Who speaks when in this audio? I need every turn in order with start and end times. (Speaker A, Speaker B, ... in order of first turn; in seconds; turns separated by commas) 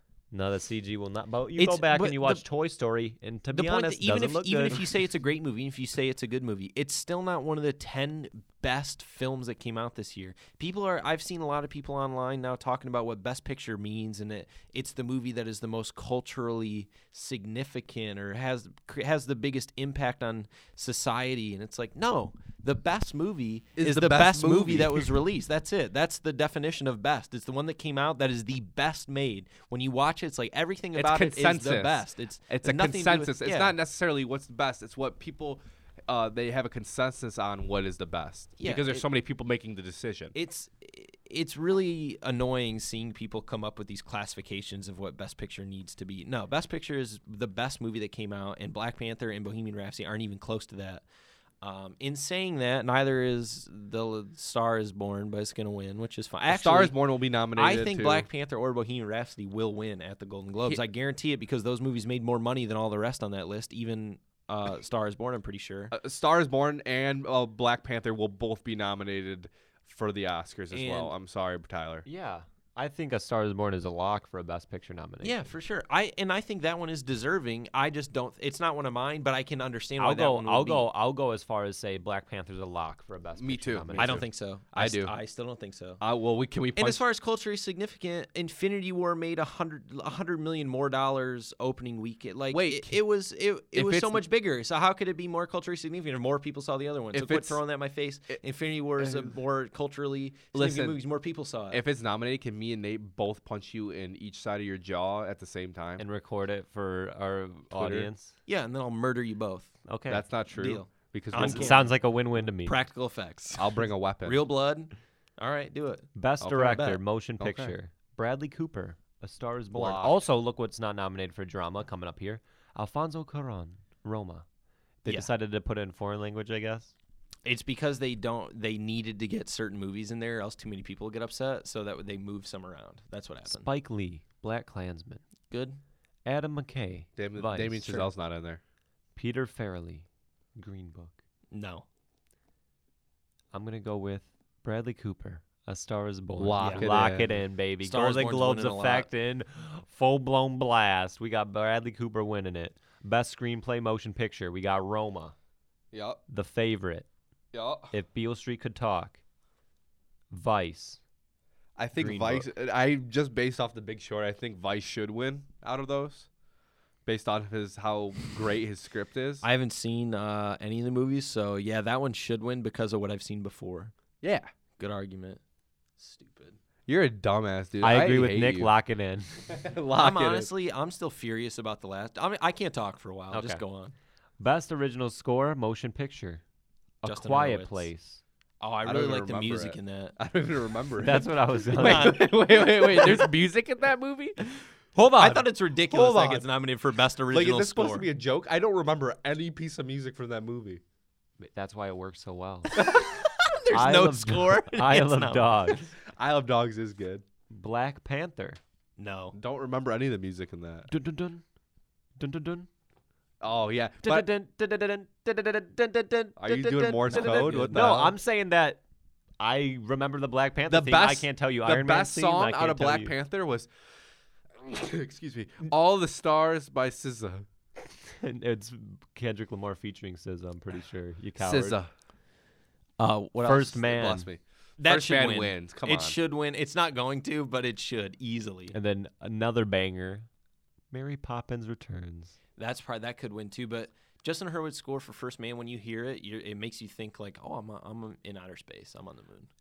Speaker A: 0.3-4.8, Speaker B: 1.6-2.4, Speaker B: 3.5-33.7, Speaker C: 23.8-25.1, Speaker C: 30.9-40.3, Speaker B: 38.6-39.0, Speaker B: 40.3-51.0, Speaker B: 51.6-56.9, Speaker C: 56.5-58.3, Speaker B: 57.5-65.9, Speaker C: 65.9-72.0, Speaker B: 70.7-71.1, Speaker A: 72.0-75.5, Speaker B: 75.2-80.9, Speaker A: 80.0-84.2, Speaker C: 83.4-85.1, Speaker B: 84.0-86.0, Speaker C: 86.0-87.0, Speaker B: 86.7-101.8, Speaker C: 92.5-93.0, Speaker C: 93.7-94.2, Speaker C: 97.1-97.6, Speaker C: 99.0-99.3, Speaker C: 100.5-101.0, Speaker C: 101.7-106.0, Speaker A: 106.0-108.3, Speaker C: 107.7-108.1, Speaker B: 108.5-109.8, Speaker A: 109.9-110.2, Speaker C: 110.1-111.8, Speaker B: 110.5-117.0, Speaker A: 111.3-112.8, Speaker C: 113.5-114.4, Speaker A: 116.2-124.4, Speaker C: 117.4-117.7, Speaker C: 119.7-120.2, Speaker A: 125.0-126.9, Speaker B: 127.4-133.7, Speaker A: 133.5-135.2, Speaker B: 135.5-135.8, Speaker A: 136.2-138.1, Speaker C: 137.2-138.6, Speaker A: 139.2-141.2, Speaker B: 141.5-141.8, Speaker A: 143.5-155.3, Speaker C: 146.4-147.4, Speaker B: 146.6-146.9, Speaker B: 147.8-149.1, Speaker C: 155.9-156.2, Speaker A: 156.3-157.1, Speaker C: 157.5-157.9, Speaker A: 157.9-159.2, Speaker A: 160.3-161.0, Speaker C: 161.8-166.3, Speaker B: 161.9-162.4, Speaker C: 167.1-169.4, Speaker B: 169.4-173.9, Speaker C: 174.2-174.5, Speaker B: 174.8-175.4, Speaker B: 176.0-176.6, Speaker C: 176.9-178.7, Speaker A: 177.8-179.5, Speaker C: 179.5-180.5, Speaker B: 179.9-183.9, Speaker A: 183.3-183.6, Speaker A: 184.4-186.4, Speaker A: 187.0-188.2, Speaker B: 187.0-187.9, Speaker B: 188.6-190.2, Speaker C: 188.8-194.4, Speaker A: 191.0-192.2, Speaker B: 191.7-193.3, Speaker C: 195.0-196.5, Speaker B: 195.0-198.1, Speaker C: 197.3-200.8, Speaker A: 201.4-202.8, Speaker B: 202.7-205.8, Speaker A: 203.7-205.9, Speaker C: 206.1-207.2, Speaker A: 207.5-208.6, Speaker B: 209.0-209.3, Speaker C: 209.3-210.9, Speaker A: 210.9-211.4, Speaker A: 212.2-212.7, Speaker C: 213.4-214.3, Speaker A: 214.0-218.8, Speaker C: 216.4-218.1, Speaker B: 217.0-218.1, Speaker A: 219.4-223.1, Speaker C: 220.7-223.7, Speaker C: 224.6-227.4, Speaker A: 228.0-231.8, Speaker C: 231.4-231.9, Speaker B: 233.0-233.9, Speaker A: 233.4-234.3, Speaker C: 233.8-236.2, Speaker B: 234.8-238.7, Speaker A: 238.7-240.3, Speaker A: 240.9-242.3, Speaker B: 242.6-249.5